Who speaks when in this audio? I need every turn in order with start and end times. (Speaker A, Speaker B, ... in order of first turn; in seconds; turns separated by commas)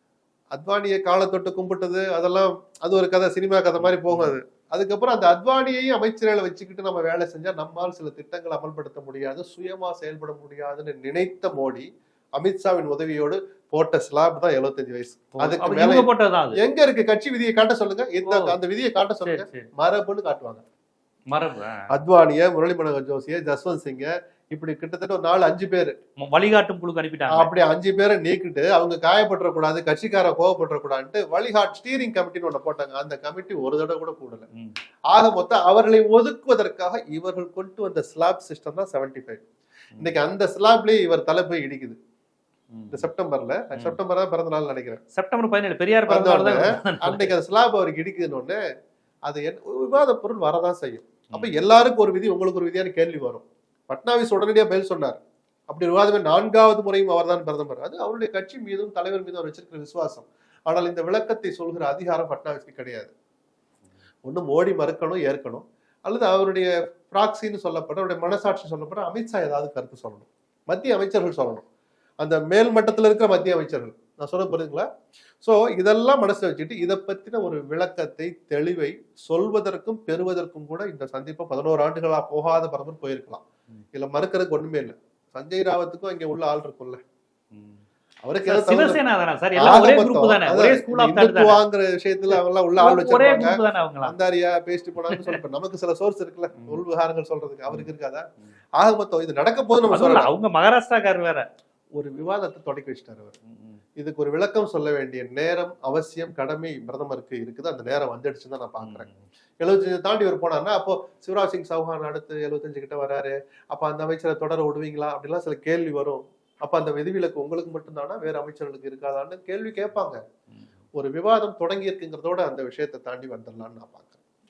Speaker A: 0.5-20.6, Speaker B: 3.8-4.3, Speaker B: 15.4-16.6, Speaker B: 18.2-18.5, Speaker B: 19.2-19.7, Speaker B: 21.3-21.9, Speaker A: 21.9-25.9, Speaker B: 26.2-27.5, Speaker A: 27.3-34.5, Speaker A: 35.1-39.4, Speaker A: 40.0-42.0, Speaker B: 42.7-43.1, Speaker A: 42.9-45.0, Speaker B: 45.1-47.3, Speaker A: 46.1-48.6, Speaker A: 49.3-55.2, Speaker A: 55.7-63.1, Speaker A: 64.3-71.7, Speaker A: 72.2-74.9, Speaker A: 75.4-83.4, Speaker A: 83.9-87.0, Speaker B: 87.5-87.8, Speaker A: 88.2-89.0, Speaker B: 88.5-91.6, Speaker A: 89.6-98.2, Speaker B: 92.3-94.1, Speaker A: 98.8-100.3, Speaker B: 99.9-101.4, Speaker A: 102.0-103.4, Speaker A: 104.0-109.1, Speaker B: 108.8-109.2, Speaker A: 109.6-120.2, Speaker A: 120.9-124.2